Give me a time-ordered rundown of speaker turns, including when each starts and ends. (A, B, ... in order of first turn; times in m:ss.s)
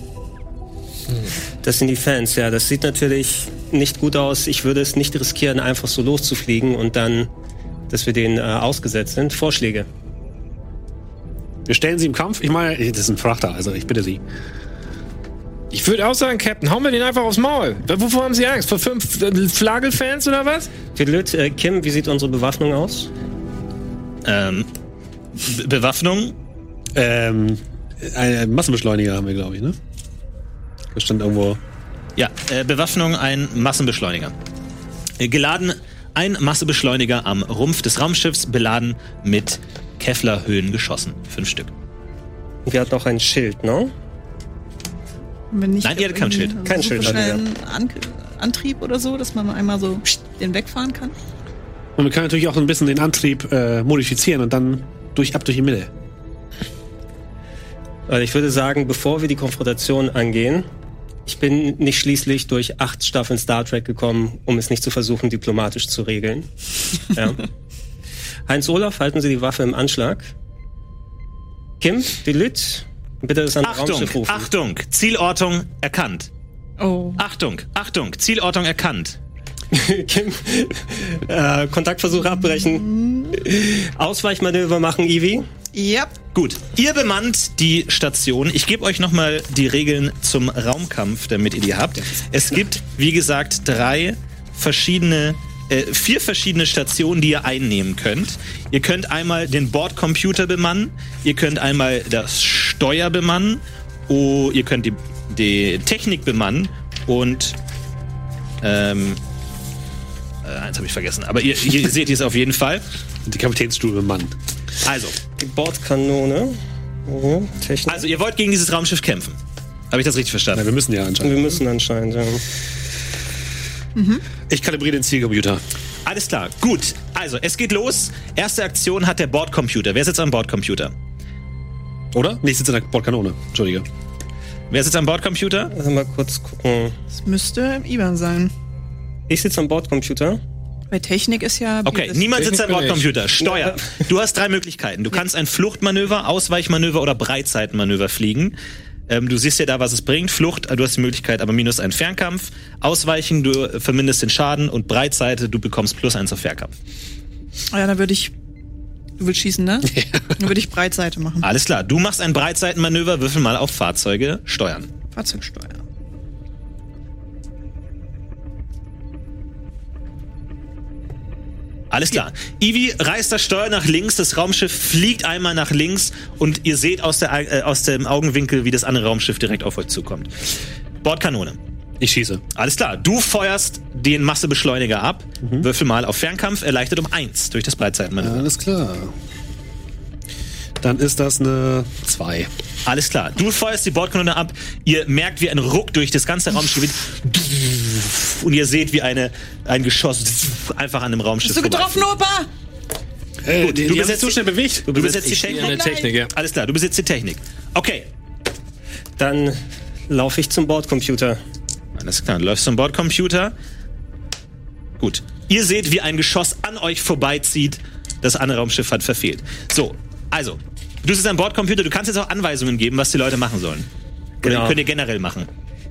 0:01.6-0:07.3 A
0:07.9-0:09.9 A
0:11.7-0:14.2 B
0:15.7-0:20.7 C
0:20.9-0:23.1 A
0:24.2-0:24.7 D
0:25.4-0:26.4 D
0:26.9-0:29.8 B
0:30.9-0:31.6 B
0:32.2-0:34.3 D
0:35.2-0:41.7 D
0:42.6-0:43.9 A
0:45.5-0:51.1 E
0:45.8-0:46.6 D
0:46.6-0:47.4 A
0:52.0-0:55.9 B
0:58.1-1:00.7 A
1:01.2-1:06.5 A
1:07.1-1:07.4 A
1:08.5-1:10.3 A
1:11.8-1:14.5 A
1:13.6-1:16.3 D
1:16.8-1:17.2 E
1:17.2-1:19.2 D
1:19.7-1:25.4 A
1:22.9-1:23.3 E
1:25.7-1:26.1 E
1:26.3-1:47.6 D
1:48.6-1:49.2 D
1:50.4-1:52.8 D
1:53.2-1:54.3 B
1:54.8-1:55.2 D
1:55.4-1:58.1 A
1:57.9-1:59.4 D
1:59.9-2:00.6 D
2:00.5-2:01.5 B
2:01.2-2:02.4 A
2:04.0-2:04.2 E
2:04.5-2:05.6 B
2:06.0-2:10.9 D
2:12.1-2:13.8 B
2:14.7-2:15.7 D
2:15.7-2:17.0 A
2:17.1-2:18.5 E
2:19.3-2:20.4 A
2:20.9-2:22.3 E
2:21.8-2:28.6 D
2:22.3-2:23.1 C
2:23.4-2:23.8 A
2:29.1-2:36.7 D
2:37.7-2:38.3 E
2:39.2-2:41.5 E
2:39.9-2:40.3 B
2:41.4-2:44.9 D
2:45.1-2:45.8 E
2:51.9-3:01.6 D
3:02.0-3:02.4 B
3:02.5-3:08.4 D
3:08.2-3:09.1 B
3:10.8-3:12.5 B
3:12.8-3:22.1 D
3:21.4-3:22.5 E
3:23.4-3:25.2 B
3:23.6-3:28.1 D
3:24.9-3:25.4 A
3:25.4-3:26.3 C
3:25.5-3:26.1 E
3:29.2-3:31.4 A
3:32.0-3:33.5 D
3:35.0-3:43.9 D
3:44.4-3:45.5 D
3:44.4-3:44.8 A